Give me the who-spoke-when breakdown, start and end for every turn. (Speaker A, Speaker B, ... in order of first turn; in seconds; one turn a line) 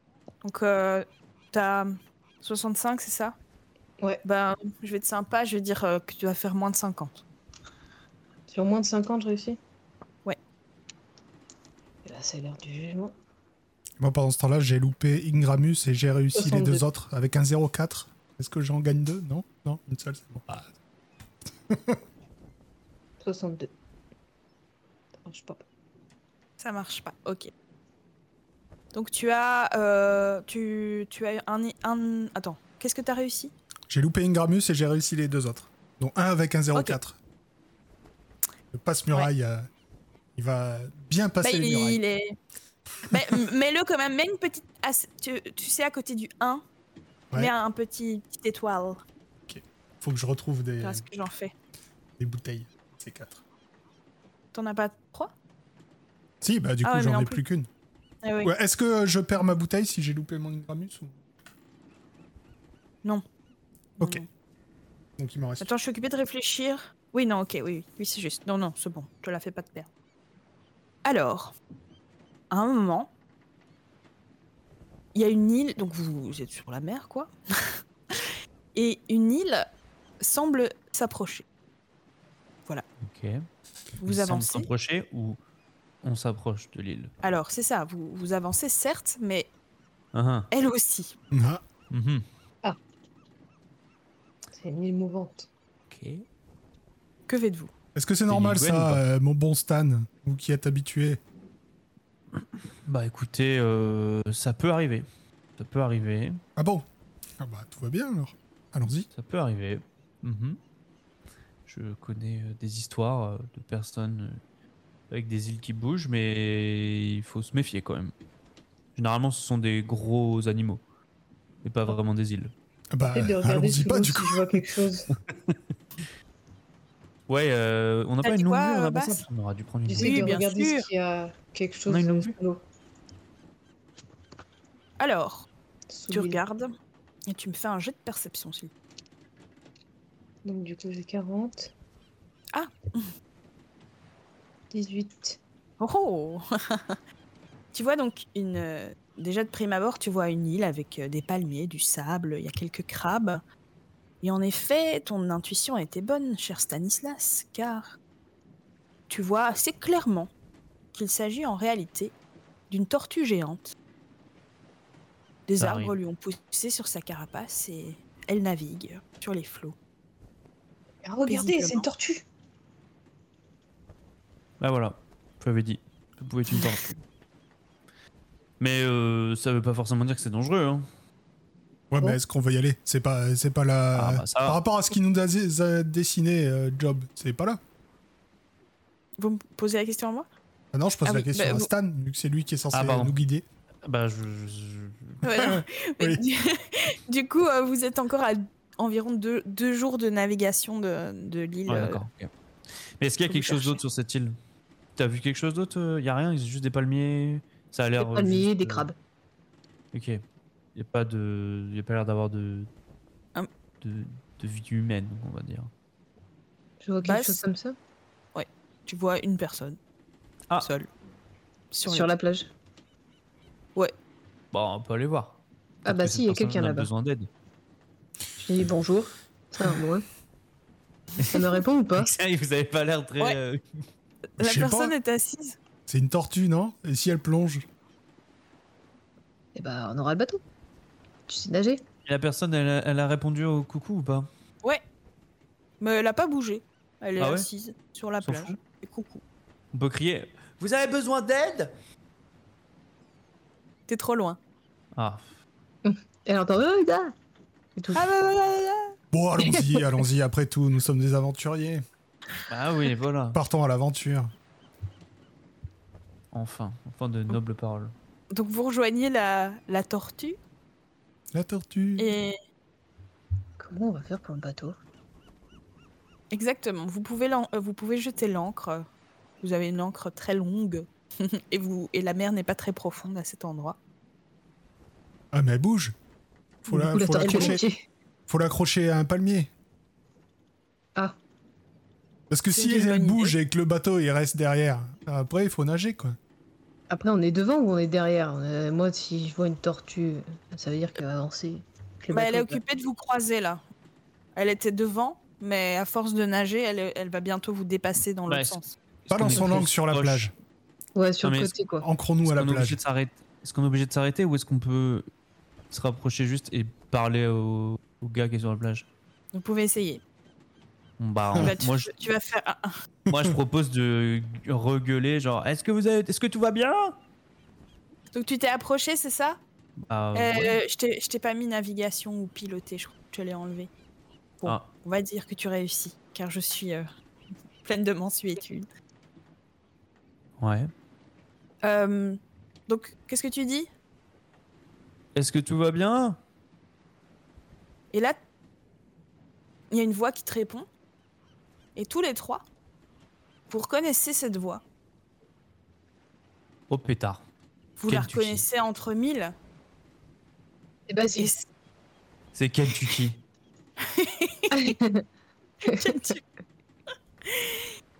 Speaker A: 0.4-3.4
Speaker A: 4.2-7.2
Speaker B: 8.5-9.6
Speaker B: 12.0-13.1
Speaker C: 14.0-20.7
Speaker B: 16.3-16.8
Speaker C: 21.7-22.0
Speaker B: 23.2-23.7
Speaker B: 25.2-25.6
Speaker A: 26.6-27.5
Speaker A: 28.9-33.5
Speaker C: 33.9-37.2
Speaker C: 38.7-39.7
Speaker C: 40.4-42.0
Speaker A: 41.4-42.4
Speaker A: 43.1-46.6
Speaker A: 47.3-49.0
Speaker C: 49.5-51.0
Speaker A: 50.8-51.5
Speaker C: 52.2-53.4
Speaker A: 54.5-55.3
Speaker C: 56.4-57.7
Speaker A: 56.8-57.4
Speaker A: 58.2-58.5
Speaker C: 58.4-61.1
Speaker A: 64.0-64.2
Speaker C: 65.2-65.7
Speaker A: 65.6-69.9
Speaker A: 71.0-71.5
Speaker A: 72.5-73.1
Speaker A: 75.1-77.3
Speaker A: 78.1-79.7
Speaker A: 80.2-81.4
Speaker D: 83.0-83.4
Speaker A: 84.0-84.7
Speaker D: 84.0-85.4
Speaker D: 86.0-87.1
Speaker A: 87.2-89.5
Speaker D: 90.1-90.5
Speaker A: 90.5-91.1
Speaker C: 91.3-91.6
Speaker D: 91.9-92.2
Speaker B: 94.5-95.5
Speaker D: 95.9-96.2
Speaker A: 97.3-97.7
Speaker C: 97.9-101.2
Speaker D: 98.3-99.0
Speaker D: 102.8-105.0
Speaker D: 105.6-106.4
Speaker C: 106.6-106.8
Speaker C: 107.4-109.1
Speaker D: 109.1-110.6
Speaker D: 111.7-114.4
Speaker D: 115.1-118.1
Speaker D: 119.0-120.8
Speaker D: 121.6-122.5
Speaker C: 122.9-124.5
Speaker B: 123.1-125.1
Speaker D: 127.3-130.4
Speaker A: 128.2-129.2
Speaker B: 129.9-132.6
Speaker A: 130.0-130.9
Speaker D: 131.9-132.3
Speaker A: 135.0-135.5
Speaker B: 135.9-136.4
Speaker A: 136.1-136.7
Speaker A: 137.3-138.7
Speaker B: 140.4-141.7
Speaker A: 142.5-143.0
Speaker B: 144.7-145.4
Speaker A: 145.8-146.9
Speaker A: 147.7-153.4
Speaker A: 154.2-158.0
Speaker A: 159.1-160.3
Speaker A: 160.9-162.1
Speaker A: 162.7-163.7
Speaker A: 165.5-169.8
Speaker D: 165.6-165.9
Speaker B: 171.0-172.2
Speaker A: 171.3-171.9
Speaker D: 174.6-177.0
Speaker D: 178.6-180.8
Speaker C: 181.9-187.6
Speaker D: 183.9-184.6
Speaker A: 189.2-190.3
Speaker C: 190.7-193.4
Speaker A: 191.0-191.7
Speaker D: 192.7-193.1
Speaker D: 193.8-195.2
Speaker A: 195.2-202.0
Speaker C: 195.3-196.2
Speaker D: 201.7-202.3
Speaker D: 203.0-204.3
Speaker A: 203.3-203.6
Speaker D: 204.9-208.9
Speaker B: 208.0-208.9
Speaker D: 209.9-210.2
Speaker D: 210.7-212.7
Speaker D: 213.8-215.7
Speaker B: 216.8-217.8
Speaker A: 217.0-217.4
Speaker A: 218.3-219.8
Speaker A: 220.6-220.9
Speaker A: 221.7-222.1
Speaker B: 221.8-222.5
Speaker D: 224.5-227.3
Speaker B: 225.8-226.9
Speaker B: 228.4-230.0
Speaker D: 231.2-233.6
Speaker B: 231.3-232.1
Speaker A: 234.4-235.6
Speaker C: 234.4-234.9
Speaker C: 235.9-237.7
Speaker B: 239.5-240.4
Speaker B: 241.3-241.8
Speaker D: 242.1-244.3
Speaker A: 245.8-249.2
Speaker D: 247.2-247.5
Speaker D: 248.2-248.6
Speaker D: 249.7-251.7
Speaker A: 253.9-254.4
Speaker D: 254.9-255.2
Speaker B: 255.8-257.1
Speaker B: 257.8-258.0
Speaker A: 257.9-258.9
Speaker C: 259.1-261.8
Speaker B: 259.4-259.9
Speaker D: 262.5-263.4
Speaker C: 263.3-264.3
Speaker D: 266.3-267.9
Speaker A: 268.3-270.4
Speaker C: 271.3-272.1
Speaker A: 272.0-272.3
Speaker B: 273.6-274.8
Speaker A: 276.3-278.9
Speaker A: 279.4-283.8
Speaker C: 285.3-285.9
Speaker C: 286.6-287.6
Speaker B: 286.7-287.8
Speaker A: 287.1-287.6
Speaker C: 288.3-289.5
Speaker C: 292.3-296.2
Speaker A: 292.5-293.4
Speaker B: 296.9-302.6
Speaker A: 302.1-303.6
Speaker A: 304.4-308.7
Speaker D: 308.3-310.3
Speaker C: 309.1-310.3
Speaker B: 310.9-311.9
Speaker D: 311.2-311.5
Speaker C: 311.8-312.8
Speaker D: 312.2-315.1
Speaker D: 315.7-318.9
Speaker A: 319.3-320.0
Speaker D: 321.0-321.9
Speaker A: 321.4-322.7
Speaker C: 323.1-323.3
Speaker D: 323.1-326.9
Speaker A: 328.1-329.4
Speaker D: 329.9-330.6
Speaker A: 330.1-333.7
Speaker A: 334.4-336.9
Speaker A: 337.6-338.7
Speaker D: 340.4-340.7
Speaker A: 341.6-343.7
Speaker D: 345.1-346.2
Speaker A: 347.9-348.2
Speaker A: 349.7-350.7
Speaker A: 351.8-352.4
Speaker A: 353.5-354.6
Speaker D: 356.7-357.2
Speaker A: 357.8-359.3
Speaker D: 357.9-358.4
Speaker B: 360.9-361.3
Speaker A: 361.2-361.5
Speaker D: 362.3-363.2
Speaker A: 363.9-364.7
Speaker B: 364.5-365.0
Speaker A: 365.6-366.2
Speaker B: 365.7-365.9
Speaker A: 367.3-367.6